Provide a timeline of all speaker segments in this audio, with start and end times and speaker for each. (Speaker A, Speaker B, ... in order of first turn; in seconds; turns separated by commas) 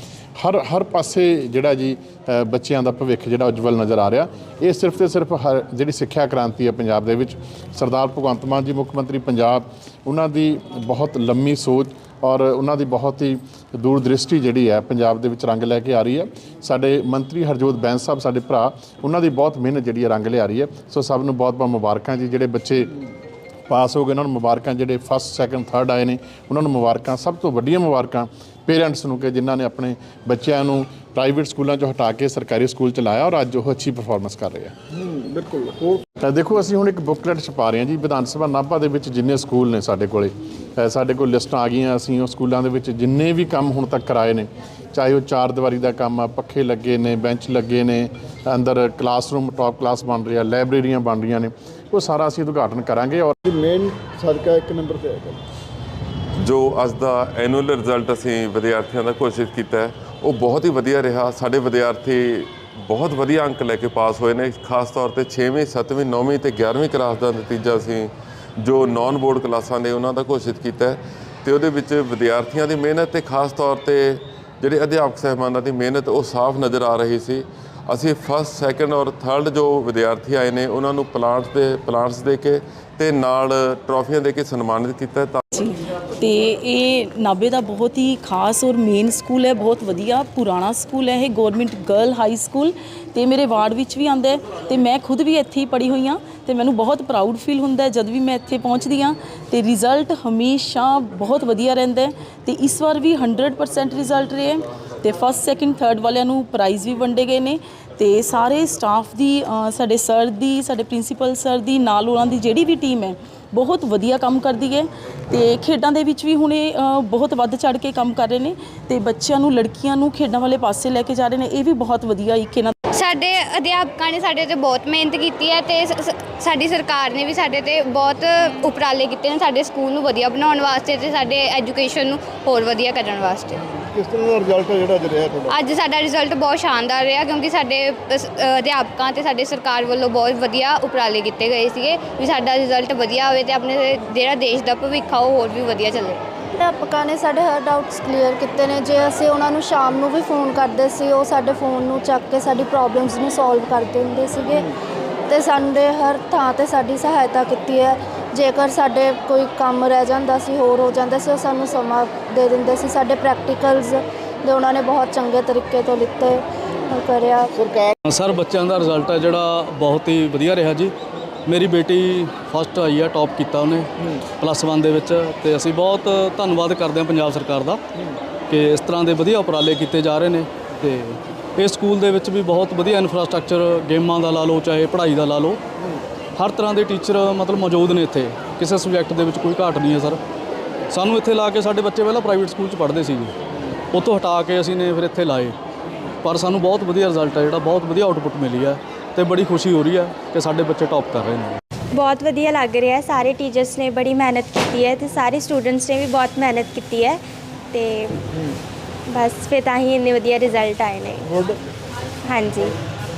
Speaker A: 0.4-22.9, Speaker A: 23.7-34.8, Speaker B: 35.0-36.0, Speaker A: 36.2-53.4, Speaker B: 53.5-55.4, Speaker C: 56.4-85.4, Speaker D: 85.5-122.7, Speaker E: 122.9-133.6, Speaker B: 133.9-135.5, Speaker E: 135.5-146.2, Speaker F: 146.6-154.7, Speaker F: 155.3-167.5, Speaker B: 167.5-167.9, Speaker G: 168.1-170.9, Speaker G: 171.5-177.8, Speaker G: 178.5-185.6, Speaker G: 186.4-190.2, Speaker G: 190.9-193.3, Speaker G: 193.9-195.5, Speaker G: 196.2-201.6, Speaker H: 201.9-208.2, Speaker H: 209.1-211.3, Speaker H: 212.2-212.7